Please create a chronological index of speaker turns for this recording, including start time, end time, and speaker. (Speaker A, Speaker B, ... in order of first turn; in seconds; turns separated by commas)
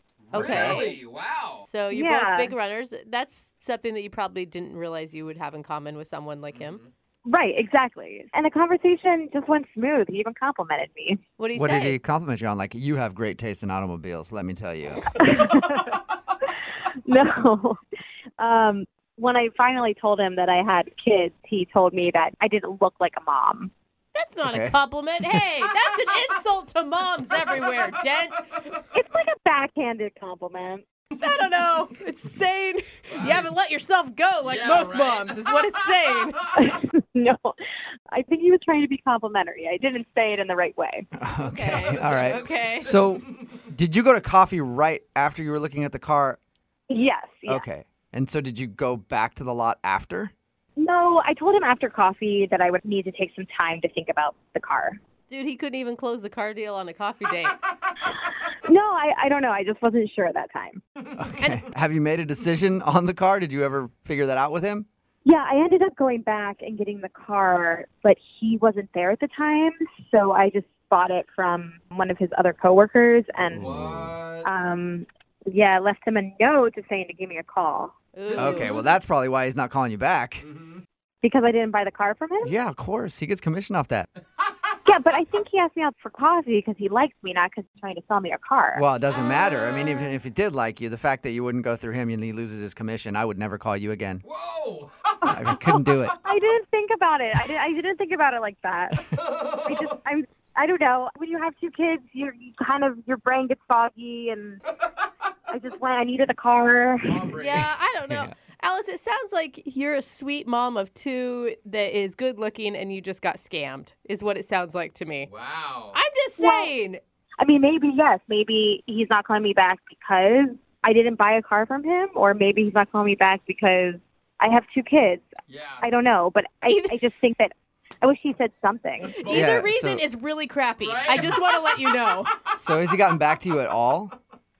Speaker A: 0.3-1.6, Speaker B: 0.3-1.0, Speaker B: 1.7-6.8, Speaker C: 1.9-2.5, Speaker C: 7.3-11.2, Speaker B: 11.4-12.0, Speaker D: 11.6-15.1, Speaker C: 15.2-16.0, Speaker C: 17.1-17.8, Speaker C: 18.4-23.7, Speaker B: 24.1-28.6, Speaker D: 24.4-24.8, Speaker C: 28.9-30.8, Speaker B: 31.2-36.4, Speaker A: 34.5-35.4, Speaker C: 36.6-37.6, Speaker C: 38.1-41.1, Speaker D: 41.2-46.4, Speaker B: 41.4-43.0, Speaker C: 46.9-47.6, Speaker D: 47.5-50.3, Speaker C: 50.8-55.0, Speaker B: 55.3-57.6, Speaker C: 58.6-60.8, Speaker D: 61.2-64.9, Speaker C: 65.2-73.7, Speaker D: 73.5-74.2, Speaker A: 73.6-74.5, Speaker C: 74.4-77.9, Speaker B: 78.1-78.9, Speaker A: 78.3-78.9, Speaker D: 78.4-80.5, Speaker C: 81.2-82.5, Speaker D: 82.4-84.1, Speaker C: 84.9-88.8, Speaker D: 88.8-94.2, Speaker A: 94.3-95.1, Speaker C: 95.2-104.6, Speaker D: 95.3-96.2, Speaker A: 99.3-99.9, Speaker C: 105.5-107.3, Speaker A: 107.0-107.7, Speaker B: 107.3-115.3, Speaker A: 115.3-116.0, Speaker B: 115.9-117.0, Speaker C: 116.4-116.7, Speaker C: 117.4-125.3, Speaker A: 125.5-125.8, Speaker C: 125.8-129.2, Speaker B: 126.7-127.0, Speaker B: 129.1-132.3, Speaker A: 129.2-129.6, Speaker D: 129.3-130.0, Speaker A: 130.8-131.4, Speaker D: 132.6-134.1